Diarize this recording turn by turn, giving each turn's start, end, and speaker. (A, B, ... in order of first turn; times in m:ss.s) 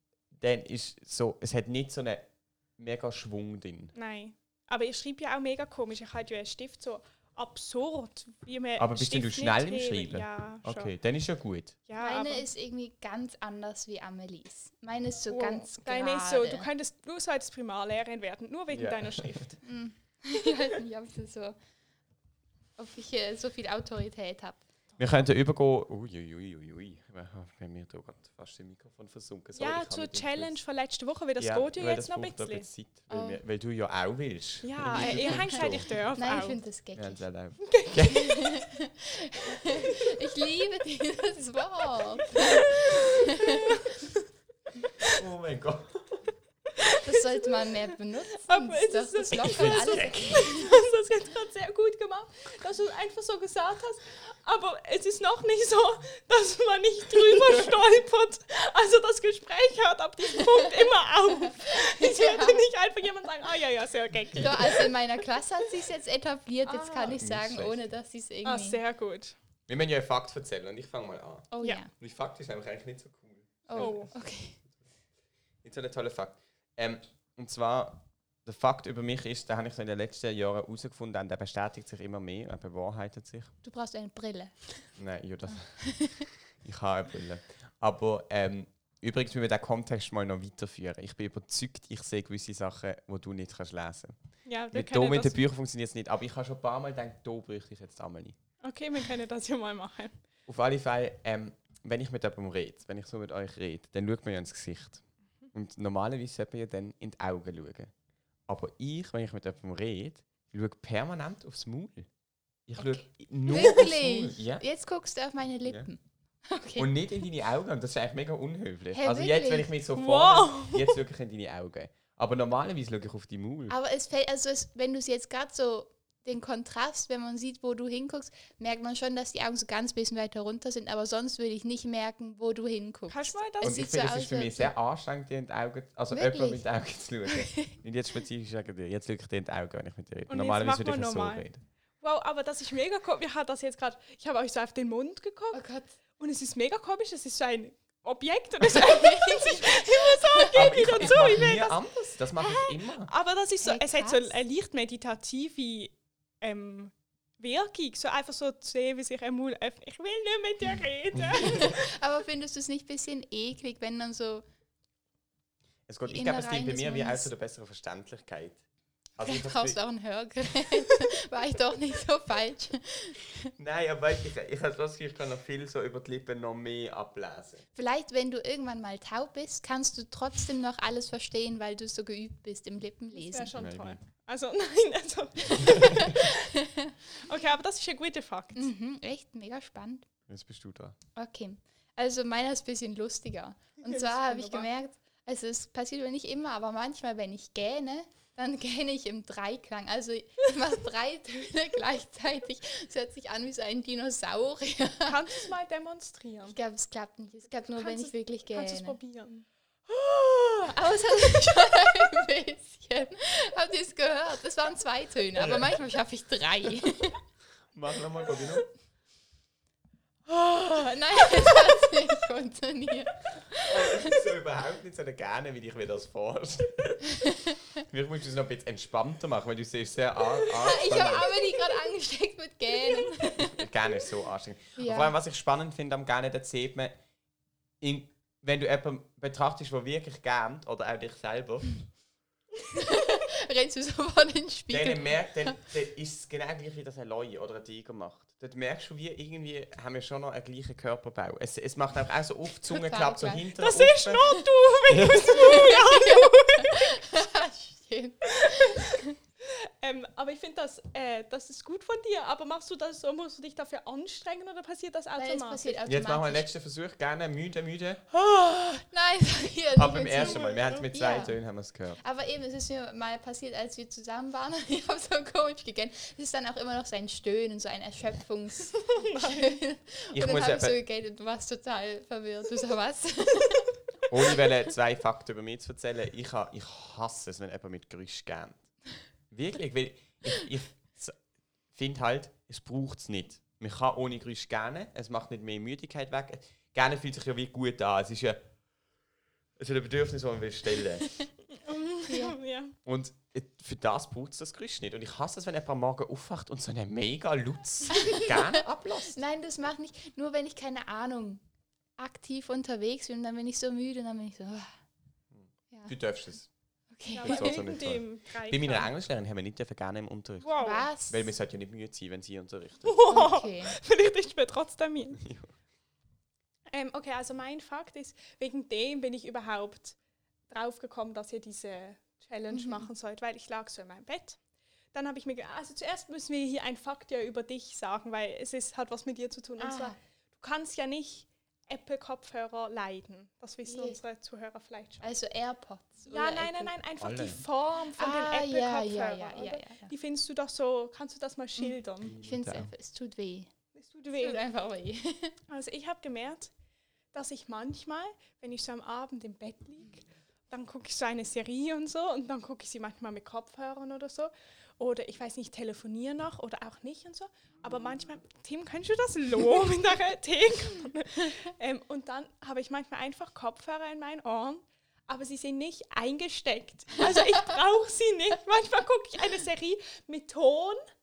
0:00.3-0:03.9 A
0:03.9-0:10.9 B
0:08.8-0:11.8 A
0:11.9-0:12.5 B
0:12.0-0:16.7 C
0:15.3-0:19.6 B
0:18.7-0:19.4 A
0:19.6-0:21.6 C
0:22.8-0:24.6 C
0:25.0-0:30.6 A
0:29.6-0:32.7 B
0:31.4-0:36.4 A
0:33.1-0:33.4 C
0:34.6-0:36.6 B
0:36.2-0:37.2 C
0:37.0-0:38.3 A
0:37.7-0:38.5 B
0:38.0-0:43.9 C
0:42.4-0:44.2 B
0:45.1-0:46.3 A
0:46.8-0:47.9 B
0:47.0-0:50.8 C
0:48.5-1:04.9 B
0:49.3-0:50.5 A
1:01.4-1:02.6 C
1:04.4-1:08.8 C
1:06.7-1:07.2 B
1:07.0-1:07.9 A
1:08.4-1:09.4 B
1:09.7-1:14.2 A
1:11.5-1:11.9 C
1:13.7-1:14.6 C
1:13.8-1:14.1 B
1:15.6-1:23.5 A
1:23.6-1:24.9 C
1:25.0-1:34.2 A
1:25.8-1:26.2 C
1:34.5-1:35.4 B
1:34.7-1:38.4 A
1:38.6-1:40.2 B
1:40.5-1:47.9 A
1:48.5-1:52.1 A
1:52.7-1:54.6 A
1:52.8-1:56.9 C
1:56.8-2:03.8 A
1:58.9-1:59.7 C
1:59.9-2:01.0 B
2:03.7-2:14.7 C
2:13.1-2:13.8 B
2:13.6-2:21.6 A
2:16.1-2:16.7 C
2:17.3-2:17.8 C
2:20.3-2:21.5 B
2:22.0-2:25.6 B
2:25.5-2:25.9 C
2:26.2-2:31.8 B
2:28.7-2:31.0 C
2:30.5-2:33.1 A
2:32.4-2:41.9 B
2:33.6-2:34.4 C
2:41.3-2:44.4 C
2:45.9-2:48.6 A
2:46.1-2:47.3 C
2:49.2-2:49.8 A
2:49.2-2:53.5 C
2:53.6-2:57.6 A
2:57.8-3:03.5 C
3:03.1-3:06.5 B
3:03.6-3:04.0 A
3:05.5-3:07.0 C
3:07.2-3:08.7 B
3:08.6-3:10.1 C
3:10.3-3:11.0 A
3:11.2-3:25.3 C
3:13.8-3:14.7 B
3:25.1-3:26.6 B
3:26.5-3:29.0 C
3:27.7-3:30.7 B
3:30.6-3:37.2 C
3:35.4-3:35.8 A
3:37.7-3:38.7 A
3:40.4-3:44.2 C
3:43.6-3:51.4 A
3:47.2-3:47.6 C
3:50.4-3:53.7 C
3:53.3-3:56.9 A
3:54.8-3:55.1 C
3:57.8-4:01.8 A
4:02.7-4:05.6 C
4:04.7-4:14.3 A
4:12.6-4:13.5 C
4:13.6-4:17.1 B
4:14.9-4:15.4 A
4:15.3-4:19.2 C
4:18.3-4:25.8 B
4:25.2-4:26.5 C
4:25.9-4:28.0 A
4:28.1-4:31.4 C
4:29.8-4:32.0 A
4:30.2-4:30.9 B
4:32.0-4:43.7 C
4:38.9-4:39.6 B
4:40.1-4:40.8 A
4:44.1-4:48.7 A
4:49.3-4:51.2 A
4:51.7-4:58.4 A
4:59.6-5:01.1 A
5:01.5-5:02.8 B
5:02.1-5:02.4 C
5:02.9-5:09.2 A
5:07.9-5:11.4 C
5:12.0-5:14.7 C
5:15.3-5:16.5 A
5:17.0-5:17.6 C
5:17.1-5:18.9 B
5:17.2-5:20.5 A
5:20.4-5:20.9 B
5:20.6-5:21.3 C
5:21.1-5:23.0 A
5:22.8-5:25.2 B
5:23.1-5:23.8 C
5:25.2-5:25.5 A
5:26.7-5:30.0 B
5:30.5-5:34.4 B
5:32.5-5:32.9 C
5:34.9-5:45.1 B
5:39.6-5:40.0 C
5:43.7-5:44.0 C
5:45.0-5:46.7 C
5:46.1-5:52.2 B
5:47.0-5:47.4 A
5:48.0-5:49.9 C
5:51.6-5:53.5 C
5:52.0-5:52.7 A
5:53.8-5:54.4 B
5:54.1-5:55.4 C
5:55.5-5:56.5 B
5:57.1-6:20.8 B